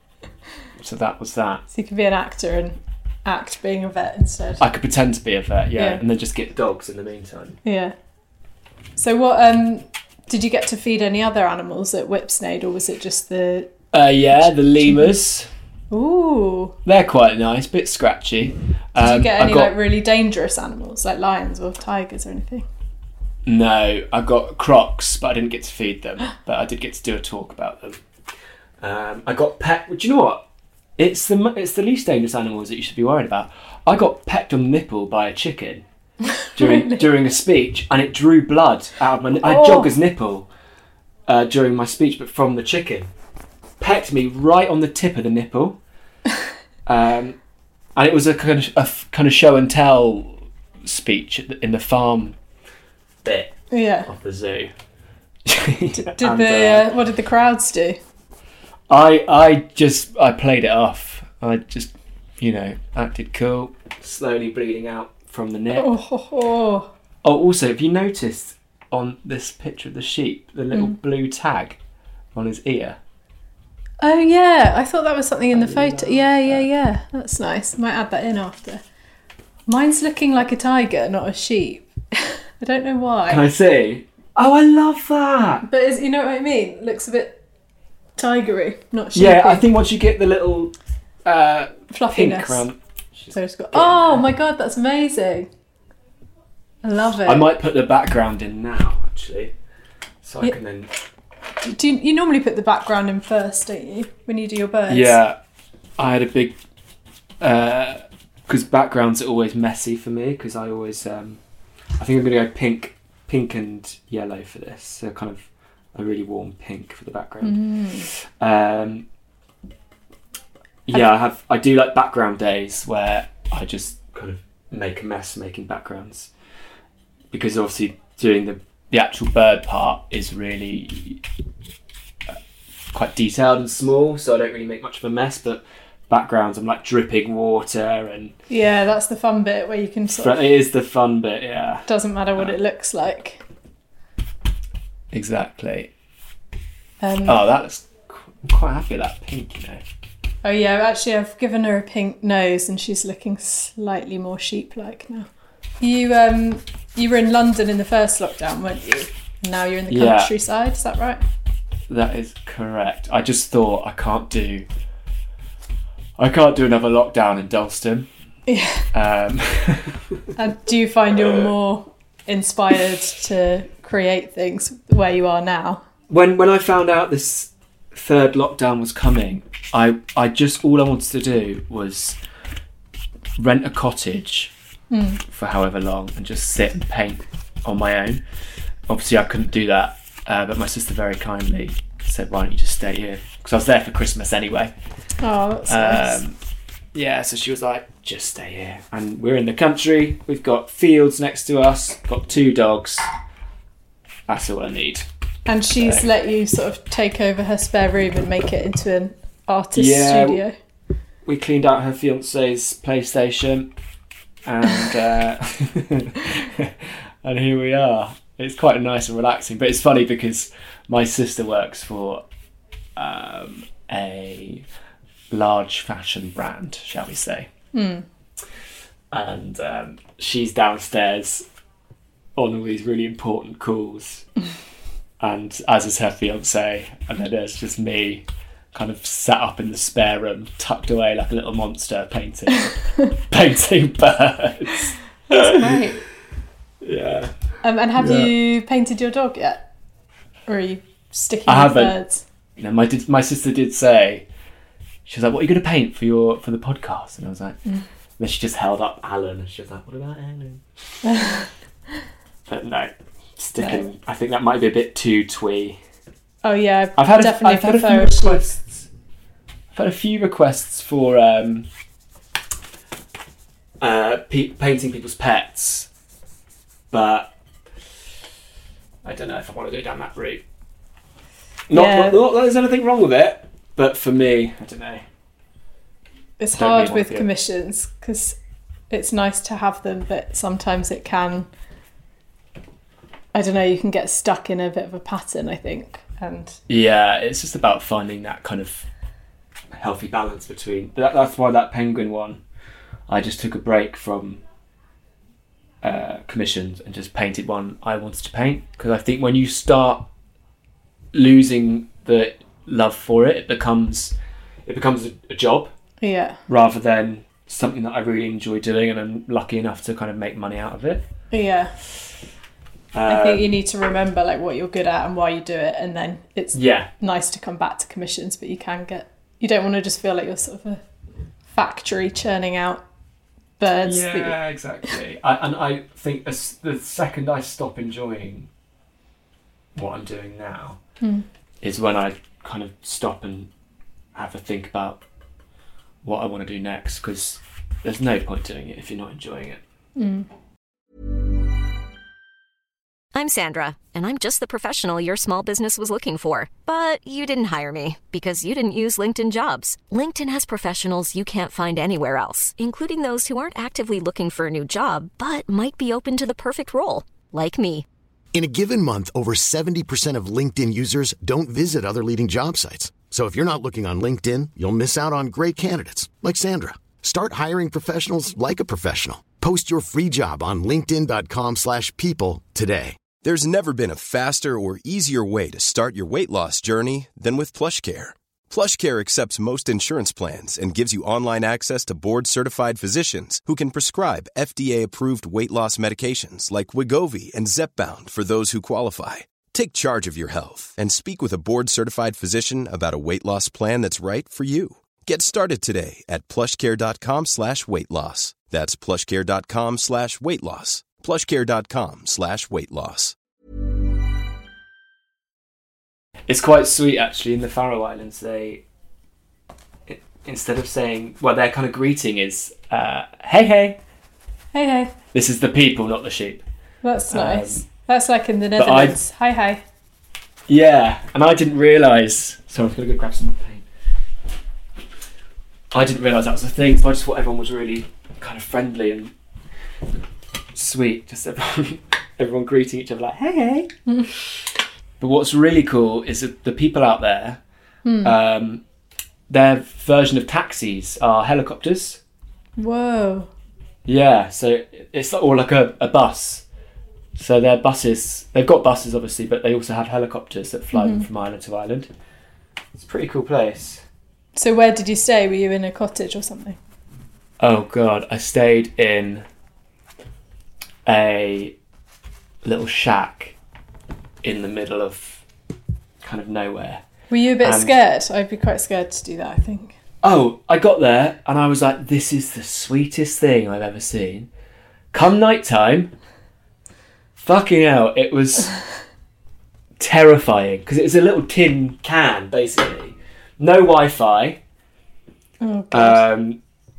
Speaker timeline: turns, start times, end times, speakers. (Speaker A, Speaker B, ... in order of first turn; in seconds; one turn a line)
Speaker A: 0.8-1.6
Speaker B: 1.7-4.6
Speaker A: 4.6-7.6
Speaker B: 7.6-7.9
Speaker B: 8.9-13.7
Speaker A: 13.9-15.5
Speaker B: 14.4-15.1
Speaker B: 15.9-16.8
Speaker A: 16.8-19.7
Speaker B: 19.0-22.6
Speaker A: 23.4-28.0
Speaker A: 28.8-30.4
Speaker A: 31.0-35.8
Speaker B: 36.4-37.0
Speaker A: 36.5-40.5
Speaker B: 39.4-39.9
Speaker A: 41.3-43.1
Speaker A: 43.8-45.8
Speaker A: 46.9-47.4
Speaker A: 48.0-52.4
Speaker A: 53.2-54.7
Speaker B: 53.7-54.1
Speaker A: 55.5-56.9
Speaker B: 55.9-58.0
Speaker A: 58.9-65.9
Speaker B: 65.8-66.9
Speaker A: 67.2-71.8
Speaker A: 72.3-73.0
Speaker B: 74.0-78.8
Speaker A: 75.5-76.7
Speaker B: 79.7-83.4
Speaker A: 83.3-85.6
Speaker B: 85.6-87.4
Speaker B: 88.2-89.6
Speaker A: 89.1-90.7
Speaker A: 91.2-94.2
Speaker B: 91.9-92.6
Speaker B: 93.3-95.5
Speaker B: 96.8-97.5
Speaker A: 97.2-99.5
Speaker A: 100.2-100.9
Speaker B: 101.6-105.2
Speaker A: 104.9-105.3
Speaker A: 106.0-106.5
Speaker A: 107.4-111.4
Speaker A: 112.0-119.0
Speaker B: 117.4-118.1
Speaker A: 120.8-126.3
Speaker A: 127.3-131.2
Speaker A: 132.9-138.3
Speaker B: 138.5-140.4
Speaker A: 140.2-142.6
Speaker B: 141.9-143.4
Speaker A: 145.1-145.9
Speaker B: 147.0-147.4
Speaker A: 147.2-149.8
Speaker B: 150.4-155.3
Speaker B: 155.8-161.2
Speaker A: 159.9-160.3
Speaker A: 161.9-164.7
Speaker A: 166.2-168.1
Speaker B: 168.5-168.9
Speaker A: 168.9-170.0
Speaker B: 170.3-175.8
Speaker A: 176.1-182.2
Speaker A: 183.4-184.5
Speaker B: 184.9-185.2
Speaker A: 185.3-188.2
Speaker A: 188.9-194.7
Speaker B: 195.2-196.2
Speaker A: 195.7-196.3
Speaker A: 196.9-203.1
Speaker A: 204.3-205.1
Speaker B: 205.5-210.5
Speaker A: 205.8-206.1
Speaker A: 209.7-210.4
Speaker A: 211.2-213.7
Speaker A: 214.4-222.2
Speaker A: 222.9-224.6
Speaker A: 225.3-227.5
Speaker B: 227.7-228.0
Speaker A: 229.1-231.4
Speaker A: 232.3-234.2
Speaker A: 235.2-245.9
Speaker B: 245.3-246.0
Speaker A: 246.8-247.3
Speaker B: 247.6-249.7
Speaker A: 248.0-248.3
Speaker B: 250.5-252.2
Speaker A: 251.5-251.9
Speaker A: 252.6-254.2
Speaker A: 255.0-257.6
Speaker A: 258.2-260.6
Speaker B: 261.0-261.5
Speaker A: 262.5-265.8
Speaker B: 263.6-263.9
Speaker B: 266.4-268.4
Speaker A: 267.0-268.9
Speaker A: 269.7-271.7
Speaker A: 273.8-275.9
Speaker A: 276.9-277.3
Speaker A: 279.0-280.4
Speaker A: 281.7-285.0
Speaker B: 281.7-282.2
Speaker B: 286.4-288.4
Speaker A: 286.6-287.3
Speaker B: 288.9-291.5
Speaker B: 293.3-296.6
Speaker A: 296.7-298.8
Speaker A: 299.7-302.4
Speaker A: 303.1-304.4
Speaker A: 305.8-310.1
Speaker A: 311.1-314.1
Speaker A: 314.6-315.7
Speaker B: 316.0-316.4
Speaker A: 316.5-321.1
Speaker B: 321.3-321.7
Speaker A: 322.9-323.5
Speaker B: 323.1-330.8
Speaker A: 326.5-326.9
Speaker B: 331.5-332.8
Speaker B: 333.6-334.4
Speaker A: 333.8-338.5
Speaker A: 339.7-340.8
Speaker B: 341.0-341.2
Speaker A: 341.6-343.5
Speaker A: 344.1-345.0
Speaker A: 346.0-349.6
Speaker B: 349.9-350.3
Speaker C: 353.1-367.9
Speaker D: 368.3-383.0
Speaker E: 383.1-413.1
Speaker A: 416.3-418.6
Speaker A: 419.9-423.8
Speaker B: 424.5-424.9
Speaker A: 425.1-426.4
Speaker B: 426.8-429.6
Speaker A: 427.1-427.6
Speaker A: 428.6-429.0
Speaker A: 430.5-433.6
Speaker A: 435.7-439.1
Speaker A: 440.5-443.7
Speaker A: 445.0-447.4
Speaker B: 447.8-448.1
Speaker A: 448.0-448.6
Speaker A: 449.3-452.0
Speaker B: 452.6-453.3
Speaker A: 453.9-456.4
Speaker A: 457.1-461.9
Speaker B: 460.7-461.0
Speaker A: 462.7-463.8
Speaker B: 464.3-466.6
Speaker A: 467.4-469.2
Speaker A: 470.9-471.5
Speaker A: 472.4-473.3
Speaker A: 474.2-475.2
Speaker A: 476.0-476.8
Speaker B: 477.1-479.7
Speaker A: 477.4-477.7
Speaker A: 480.0-484.3
Speaker A: 484.9-485.9
Speaker A: 487.1-488.6
Speaker A: 489.8-494.4
Speaker B: 495.4-496.0
Speaker A: 495.7-496.4